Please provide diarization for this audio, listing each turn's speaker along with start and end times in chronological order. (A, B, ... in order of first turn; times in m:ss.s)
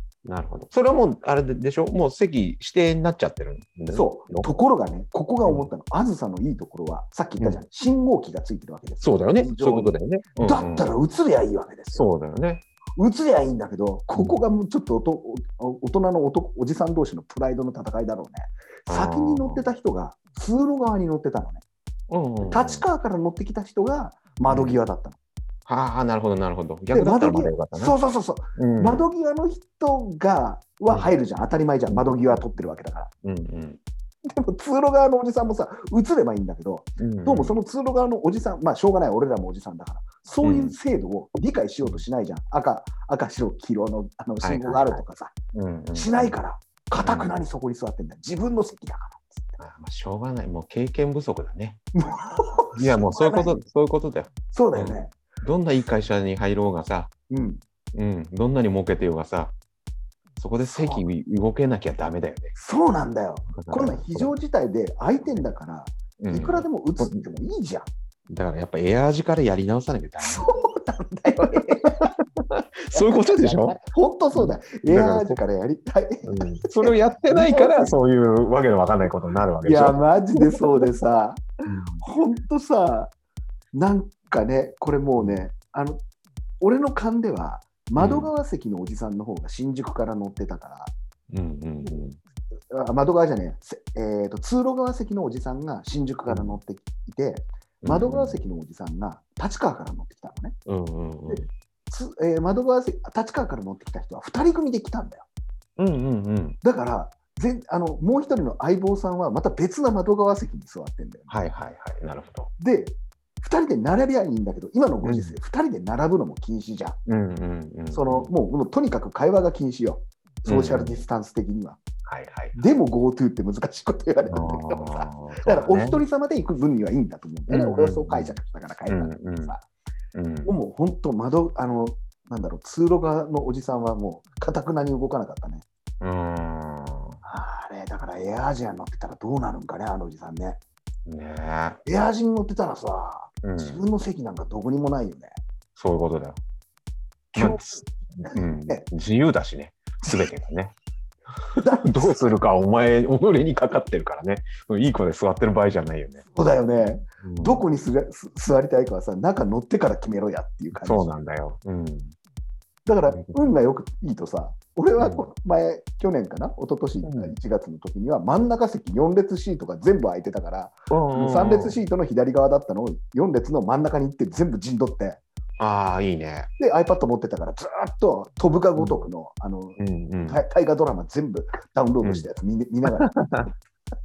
0:00.2-0:04.5 A
0:03.9-0:12.1 B
0:09.0-0:10.9 A
0:11.9-0:12.6 A
0:13.0-0:21.6 B
0:18.9-0:19.6 A
0:22.1-0:22.8 A
0:22.4-0:25.2 B
0:24.5-0:24.8 A
0:25.6-0:27.9 A
0:26.9-0:33.1 B
0:28.6-0:29.0 A
0:31.9-0:32.7 A
0:33.2-0:33.8 A
0:34.2-0:45.3 B
0:37.0-0:37.5 A
0:40.4-0:40.7 A
0:44.4-0:45.0 A
0:45.5-0:46.4 A
0:45.9-0:49.6 B
0:47.0-0:47.3 A
0:49.6-0:51.8 A
0:51.9-0:53.6 B
0:52.7-0:57.1 A
0:54.5-0:55.1 B
0:57.3-0:57.6 B
0:57.9-0:59.5 A
1:00.4-1:02.5 A
1:00.6-1:01.0 B
1:02.5-1:07.9 B
1:03.6-1:04.3 A
1:06.2-1:07.2 A
1:08.3-1:10.5 A
1:10.2-1:12.1 B
1:11.6-1:13.8 A
1:12.9-1:18.0 B
1:14.3-1:15.4 A
1:16.2-1:20.9 A
1:19.6-1:23.1 B
1:21.6-1:22.0 A
1:23.7-1:26.0 B
1:25.2-1:25.5 A
1:26.6-1:30.9 B
1:28.0-1:28.3 A
1:31.3-1:32.2 A
1:32.7-1:40.6 B
1:36.3-1:36.6 A
1:37.8-1:38.4 A
1:40.7-1:41.5 A
1:41.3-1:45.2 B
1:45.8-1:46.6 A
1:46.6-1:51.3 B
1:51.3-1:52.5 A
1:52.6-1:57.0 B
1:55.0-1:55.3 A
1:57.0-1:58.3 A
1:57.9-2:01.8 B
2:00.4-2:01.0 A
2:02.0-2:02.5 A
2:02.5-2:09.6 B
2:04.3-2:06.0 A
2:07.5-2:08.4 A
2:08.9-2:09.5 A
2:10.1-2:10.5 A
2:10.4-2:15.6 B
2:16.0-2:17.2 A
2:17.2-2:20.6 B
2:21.0-2:21.8 A
2:21.8-2:25.3 B
2:23.4-2:23.8 A
2:25.8-2:26.4 A
2:27.3-2:28.8 B
2:27.4-2:30.7 A
2:30.0-2:30.3 B
2:31.5-2:32.4 B
2:31.8-2:36.2 A
2:36.3-2:41.2 B
2:37.2-2:37.6 A
2:40.7-2:42.1 A
2:42.8-2:55.2 B
2:43.1-2:43.5 A
2:45.0-2:45.2 A
2:47.0-2:47.3 A
2:50.9-2:51.8 A
2:55.6-2:56.5 A
2:56.6-3:03.5 B
2:59.8-3:00.4 A
3:02.0-3:02.3 A
3:02.9-3:03.5 A